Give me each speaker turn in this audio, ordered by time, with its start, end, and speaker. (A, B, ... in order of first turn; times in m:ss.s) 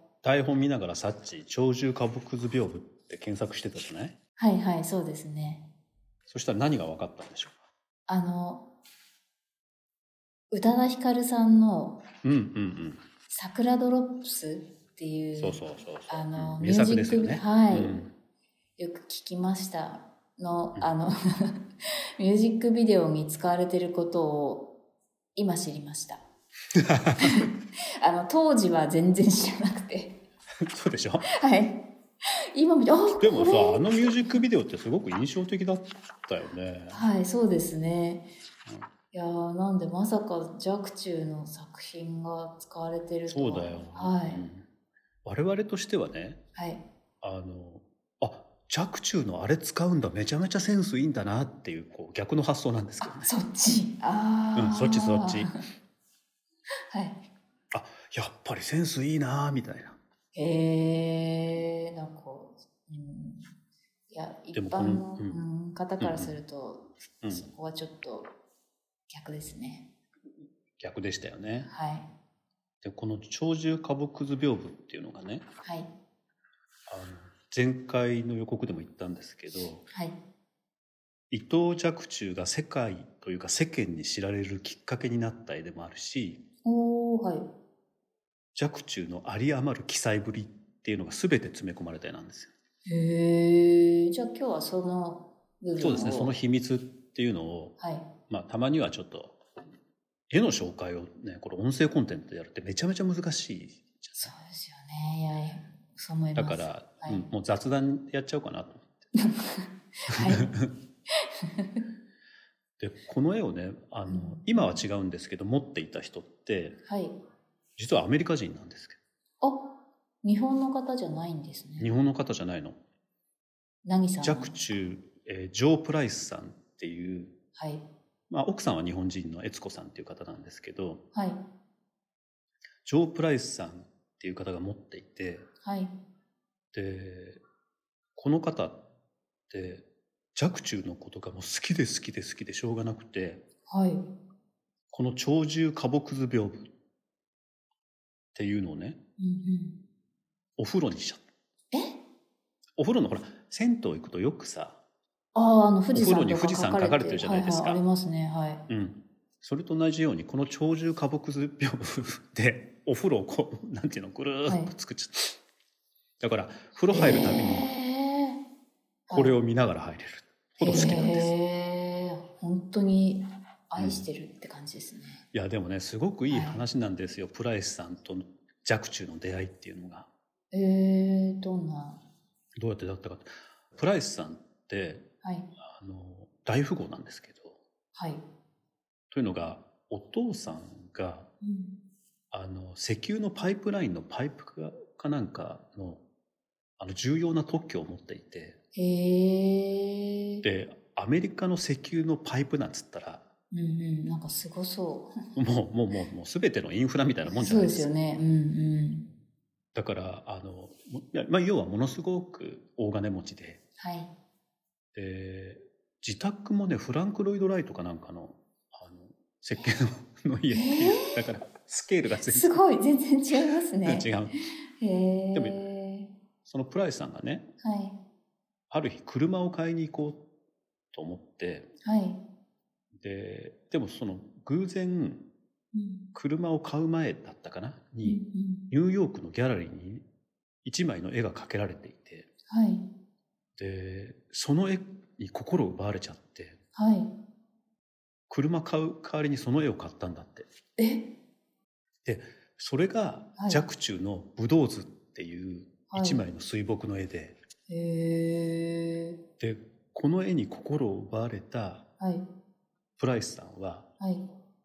0:00.2-0:04.2 A
0:04.4-0:05.6 B
0:06.3-0:07.6 A
0:08.1-0:08.6 B
0:10.5-0:12.0 B
0:12.2-0:13.0 A
0:13.3-0:18.0 B
0:15.4-0:18.1 A
0:18.8-0:21.1 B
0:22.2-0:24.7 B
0:25.4-0:26.2 B
0:26.8-0:27.4 A
0:27.2-0:27.5 B
0:28.0-0:30.2 B
0:30.7-0:31.3 A
0:31.4-0:31.8 B
0:32.5-0:34.4 B
0:33.2-0:37.0 A
0:36.9-0:38.3 B
0:39.1-0:44.5 B
0:43.3-0:44.6 A
0:45.2-0:46.4 A
0:46.6-0:46.8 B
0:47.2-0:53.4 A
0:53.0-0:55.6 B
0:54.6-0:55.5 A
0:56.9-0:57.2 B
0:57.7-1:00.0 A
1:00.3-1:03.5 B
1:04.1-1:08.3 B
1:04.5-1:05.4 A
1:06.0-1:06.4 A
1:07.2-1:07.5 A
1:09.1-1:09.9 B
1:10.8-1:11.7 A
1:11.7-1:12.1 B
1:12.8-1:15.5 A
1:15.6-1:15.9 B
1:16.9-1:19.8 A
1:19.9-1:20.2 B
1:21.3-1:26.4 A
1:26.6-1:27.5 B
1:28.6-1:32.5 A
1:32.9-1:36.4 B
1:35.8-1:37.8 A
1:37.8-1:38.1 B
1:38.3-1:39.4 A
1:40.3-1:44.3 A
1:44.2-1:47.3 B
1:46.4-1:49.0 A
1:49.1-1:50.5 B
1:50.2-1:50.7 A
1:51.4-1:51.8 B
1:52.8-1:56.8 A
1:54.1-1:54.5 B
1:56.8-1:57.2 B
1:57.8-1:59.0 A
1:59.4-1:59.7 B
2:00.2-2:01.9 B
2:01.8-2:02.8 A
2:03.8-2:04.6 B
2:04.2-2:07.3 A
2:07.6-2:07.8 B
2:08.3-2:11.0 A
2:11.1-2:11.4 B
2:12.8-2:15.5 A
2:15.6-2:15.9 B
2:16.7-2:17.4 A
2:18.2-2:18.8 A
2:19.5-2:23.4 A
2:23.7-2:24.1 B
2:24.9-2:26.7 A
2:28.4-2:29.0 A
2:29.2-2:29.8 B
2:30.6-2:31.2 A
2:32.8-2:34.8 A
2:35.3-2:38.6 B
2:35.9-2:37.8 A
2:38.7-2:45.4 A
2:44.5-2:44.7 B
2:46.2-2:47.7 A
2:46.9-2:48.4 B
2:49.1-2:49.4 B
2:49.1-2:51.3 A
2:50.6-2:55.2 B
2:53.8-2:54.1 A
2:55.3-3:00.1 A
2:56.3-2:56.6 B
3:00.5-3:02.0 B
3:02.6-3:05.0 A
3:05.2-3:05.5 B
3:05.6-3:07.6 A
3:07.9-3:08.2 B
3:09.1-3:11.3 A
3:11.4-3:11.8 B
3:12.3-3:16.0 A
3:16.8-3:18.6 A
3:18.7-3:20.4 B
3:20.4-3:23.2 A
3:23.5-3:25.1 B
3:25.4-3:27.9 A
3:27.3-3:29.1 B
3:29.8-3:33.6 A
3:33.8-3:34.1 B
3:34.9-3:42.6 A
3:40.5-3:41.3 B
3:42.3-3:44.2 B
3:43.8-3:44.3 A
3:44.8-3:46.1 B
3:45.3-3:45.6 A
3:46.4-3:47.4 A
3:47.6-3:48.0 B
3:48.7-3:50.2 A
3:50.9-3:51.7 A
3:51.8-3:52.2 B
3:53.0-3:55.2 A
3:55.7-3:56.0 B
3:56.2-4:00.1 A
3:58.0-3:58.6 B
4:00.6-4:02.3 A
4:02.5-4:02.9 B
4:03.6-4:06.6 A
4:06.8-4:07.1 B
4:08.3-4:10.5 A
4:10.8-4:11.1 B
4:12.0-4:17.4 A
4:13.4-4:13.6 B
4:15.9-4:16.3 B
4:17.7-4:19.2 B
4:19.4-4:21.8 A
4:22.0-4:22.3 B
4:23.0-4:23.9 A
4:24.0-4:24.3 B